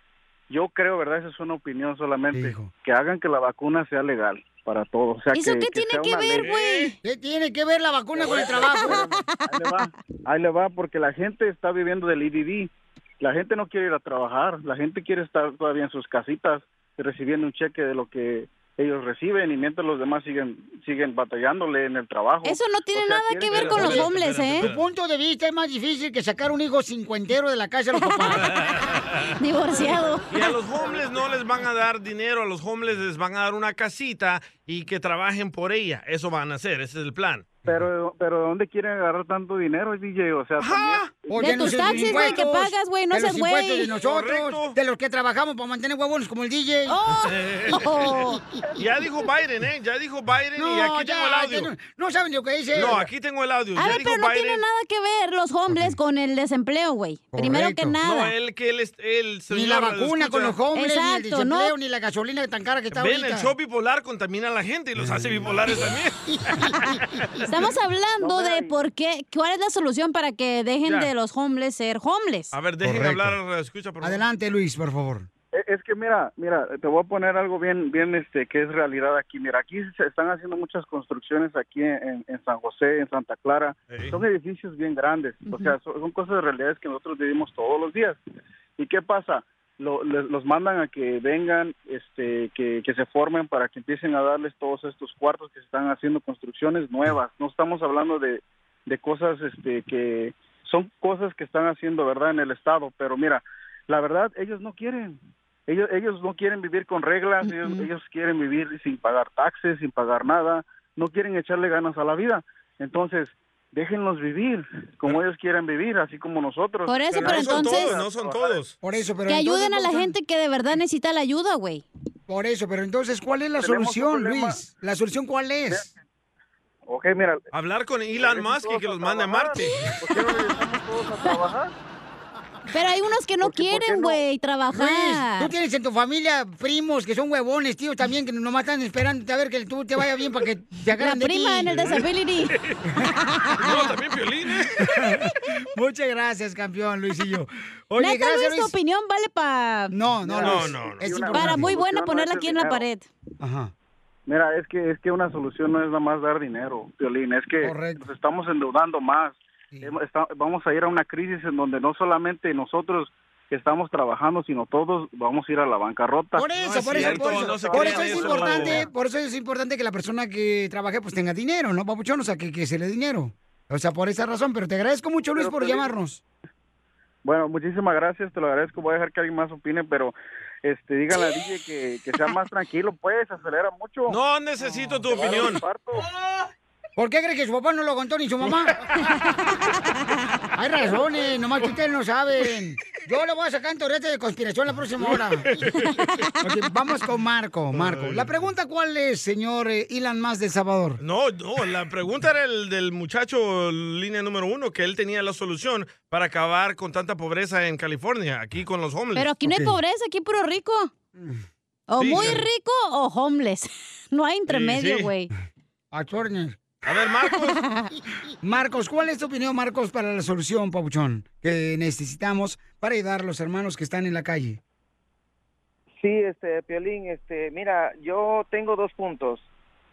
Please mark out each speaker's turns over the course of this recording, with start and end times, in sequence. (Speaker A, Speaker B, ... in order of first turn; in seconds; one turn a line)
Speaker A: 0.5-6.5
Speaker B: 2.3-2.7
Speaker C: 5.3-7.0
Speaker D: 6.4-6.9
Speaker B: 7.0-9.0
Speaker A: 8.2-12.7
Speaker C: 8.6-9.9
Speaker A: 13.2-24.1
Speaker C: 22.4-24.7
Speaker D: 23.6-24.8
Speaker B: 23.7-28.5
Speaker C: 28.0-28.8
Speaker D: 28.4-29.3
Speaker C: 29.4-30.6
Speaker D: 30.3-37.6
Speaker A: 37.6-42.2
Speaker B: 40.6-47.0
Speaker C: 41.4-43.9
Speaker D: 43.9-44.8
Speaker C: 46.9-48.4
Speaker D: 47.2-47.9
Speaker B: 47.8-48.4
Speaker D: 48.8-51.7
Speaker B: 50.6-53.1
Speaker D: 52.7-54.6
Speaker C: 53.8-58.4
Speaker B: 55.7-56.0
Speaker B: 57.3-58.0
Speaker D: 58.0-60.6
Speaker B: 59.5-63.5
Speaker C: 60.7-61.7
Speaker D: 62.9-67.5
Speaker B: 65.0-65.7
Speaker C: 67.5-72.5
Speaker A: 68.3-68.6
Speaker D: 70.8-71.1
Speaker D: 72.5-74.2
Speaker B: 72.8-73.4
Speaker B: 74.0-75.3
Speaker A: 75.5-88.2
Speaker D: 83.9-84.2
Speaker C: 85.5-85.8
Speaker A: 88.8-118.6
Speaker C: 107.4-107.9
Speaker C: 116.9-118.0
Speaker D: 117.1-118.7
Speaker B: 118.8-120.1
Speaker C: 119.3-121.8
Speaker B: 122.3-125.9
Speaker A: 123.6-124.6
Speaker A: 126.9-127.4
Speaker D: 127.5-129.7
Speaker A: 128.2-131.7
Speaker C: 129.6-130.2
Speaker C: 132.7-135.5
Speaker A: 133.4-134.1
Speaker B: 134.7-142.0
Speaker C: 141.0-142.6
Speaker D: 142.5-142.8
Speaker C: 143.1-143.9
Speaker D: 143.6-144.9
Speaker B: 144.8-148.7
Speaker C: 148.0-149.9
Speaker B: 149.9-151.8
Speaker A: 150.2-152.9
Speaker D: 150.4-151.0
Speaker C: 151.3-153.1
Speaker B: 153.4-153.7
Speaker A: 154.3-168.7
Speaker B: 157.6-158.1
Speaker B: 166.3-176.2
Speaker D: 166.6-168.9
Speaker E: 167.0-168.8
Speaker A: 175.4-175.8
Speaker A: 177.2-184.2
Speaker D: 184.1-185.6
Speaker A: 184.9-186.1
Speaker B: 187.0-188.8
Speaker C: 189.0-189.9
Speaker B: 190.6-195.5
Speaker D: 195.4-196.0
Speaker B: 196.4-201.0
Speaker D: 197.7-198.4
Speaker D: 201.0-209.3
Speaker C: 209.2-210.9
Speaker B: 209.4-209.8
Speaker C: 211.9-215.3
Speaker D: 212.0-212.4
Speaker D: 214.5-215.1
Speaker B: 215.9-216.6
Speaker D: 216.8-217.6
Speaker C: 217.3-217.9
Speaker B: 218.4-224.6
Speaker E: 226.0-229.5